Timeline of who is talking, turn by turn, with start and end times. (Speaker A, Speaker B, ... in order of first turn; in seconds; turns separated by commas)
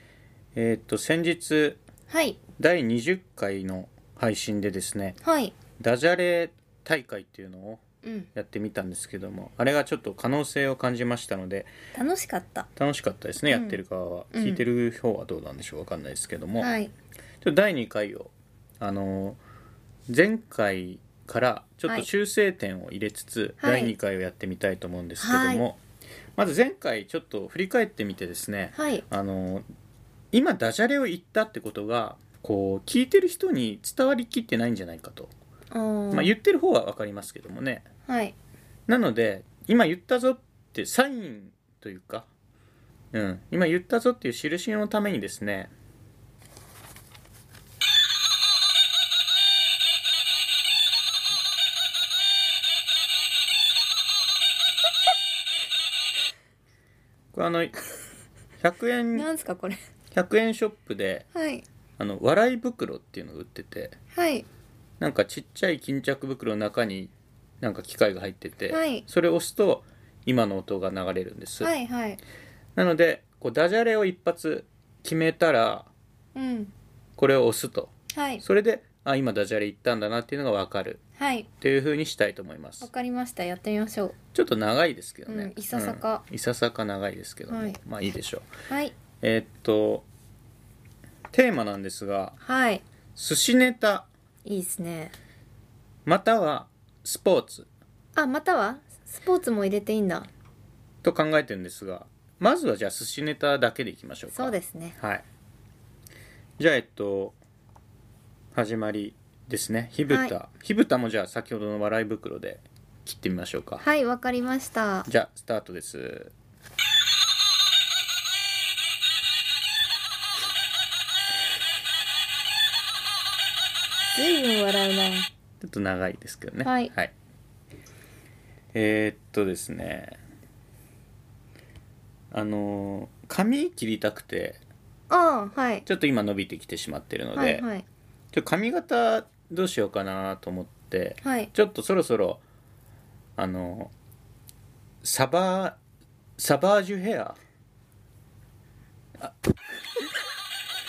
Speaker A: 0.5-1.8, Speaker B: 2.1-2.4, Speaker A: 2.6-5.2, Speaker B: 5.2-5.5, Speaker A: 5.8-7.8, Speaker B: 8.0-8.3, Speaker A: 8.3-11.7, Speaker B: 11.9-12.7, Speaker A: 12.8-16.7, Speaker B: 13.5-13.8, Speaker B: 14.3-14.6, Speaker B: 16.6-16.9, Speaker A: 17.4-19.4, Speaker A: 20.1-25.8, Speaker B: 23.6-23.9, Speaker B: 25.2-25.6, Speaker A: 26.4-29.6, Speaker B: 28.7-29.0, Speaker A: 30.3-35.3, Speaker B: 35.7-36.3, Speaker A: 36.1-37.9, Speaker B: 38.0-38.4, Speaker A: 38.9-42.3, Speaker A: 43.1-45.7, Speaker A: 57.3-57.7, Speaker A: 58.6-59.3, Speaker B: 59.1-59.8, Speaker A: 60.1-61.3, Speaker B: 61.3-61.6, Speaker A: 62.0-64.0, Speaker B: 64.1-64.5, Speaker A: 65.0-71.7, Speaker B: 68.7-69.0, Speaker B: 71.6-72.2, Speaker A: 72.8-75.9, Speaker B: 76.3-76.7, Speaker A: 77.2-81.0, Speaker B: 78.1-78.4, Speaker B: 81.2-81.5, Speaker A: 81.6-82.9, Speaker B: 82.8-84.2, Speaker A: 84.3-88.5, Speaker B: 85.2-86.2, Speaker B: 87.5-87.8, Speaker B: 88.7-88.9, Speaker A: 89.2-90.0, Speaker A: 91.3-92.4, Speaker B: 92.4-92.8, Speaker A: 93.2-94.1, Speaker B: 94.5-95.1, Speaker A: 96.0-97.7, Speaker B: 98.2-100.3, Speaker A: 101.0-105.2, Speaker B: 104.3-105.0, Speaker A: 106.6-107.4, Speaker A: 108.5-113.8, Speaker B: 110.1-110.3, Speaker B: 113.8-115.1, Speaker A: 115.0-116.3, Speaker B: 124.1-125.3, Speaker A: 125.6-127.1, Speaker B: 126.6-126.9, Speaker A: 128.7-130.2, Speaker A: 132.3-134.6, Speaker B: 135.1-135.8, Speaker A: 135.8-137.7, Speaker B: 137.3-137.8, Speaker A: 138.3-142.4, Speaker B: 141.2-141.5, Speaker A: 143.4-143.9, Speaker A: 145.0-145.8, Speaker A: 146.4-147.4